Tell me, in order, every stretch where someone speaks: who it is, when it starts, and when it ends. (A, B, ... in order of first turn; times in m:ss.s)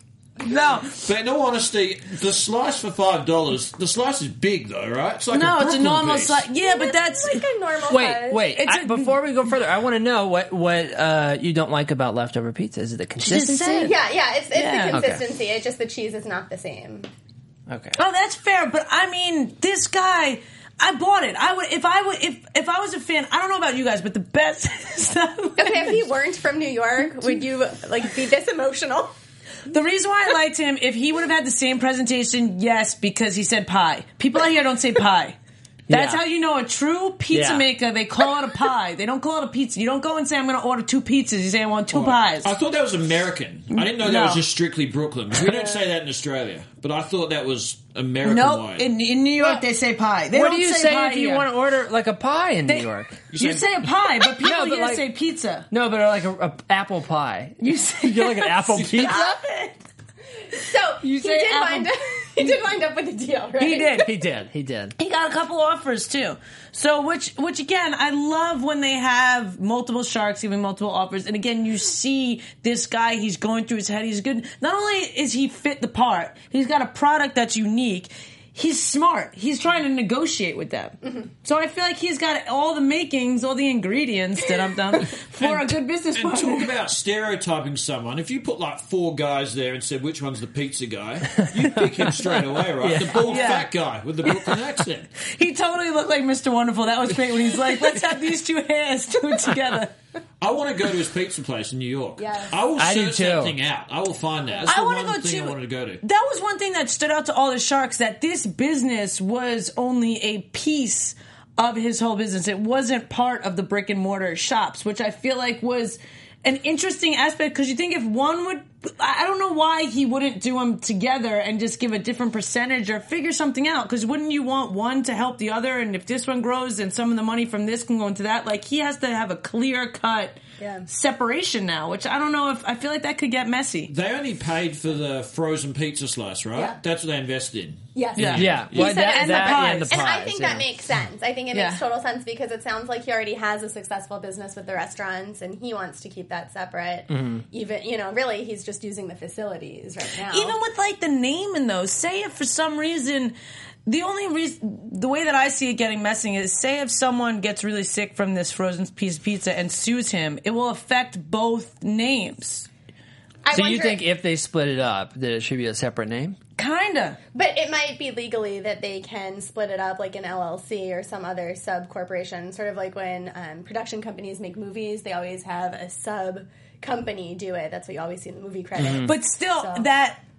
0:00.4-0:00.9 A
0:00.9-0:06.4 B
0:05.3-0:07.4 A
0:06.6-0:08.6 C
0:07.9-0:13.9 D
0:08.6-0:09.2 A
0:13.2-0:14.0 A
0:13.8-0:17.1 C
0:14.5-0:15.0 A
0:14.9-0:15.2 D
0:17.7-0:18.0 D
0:18.0-0:26.1 A
0:25.6-0:29.1 C
0:27.0-0:27.4 A
0:29.7-0:35.4 A
0:35.9-0:36.2 D
0:35.9-0:42.5 A
0:37.3-0:37.7 D
0:41.9-0:48.9 B
0:43.7-0:44.5 A
0:48.2-0:51.5 A
0:50.3-0:53.2 D
0:52.7-0:55.7 A
0:53.3-0:54.0 B
0:54.4-0:55.1 D
0:55.7-0:59.3 D
0:57.6-0:59.8 A
0:58.7-0:59.3 B
1:00.5-1:04.1 C
1:01.0-1:01.9 A
1:03.6-1:04.1 A
1:04.0-1:05.0 D
1:05.0-1:26.7 A
1:25.4-1:35.1 B
1:32.2-1:33.5 D
1:33.2-1:33.7 A
1:35.3-1:39.9 A
1:40.4-1:46.0 B
1:42.2-1:42.6 C
1:42.8-1:43.6 D
1:44.7-2:13.9 A
2:10.6-2:10.9 C
2:13.9-2:18.9 B
2:18.0-2:30.6 C
2:18.2-2:20.0 A
2:18.2-2:20.7 D
2:21.5-2:21.8 A
2:27.1-2:27.4 D
2:30.3-2:33.4 A
2:33.9-2:42.7 A
2:43.4-2:44.1 C
2:43.5-2:46.4 D
2:46.6-2:47.2 A
2:47.4-2:59.9 C
2:58.8-2:59.1 D
2:59.0-3:00.2 A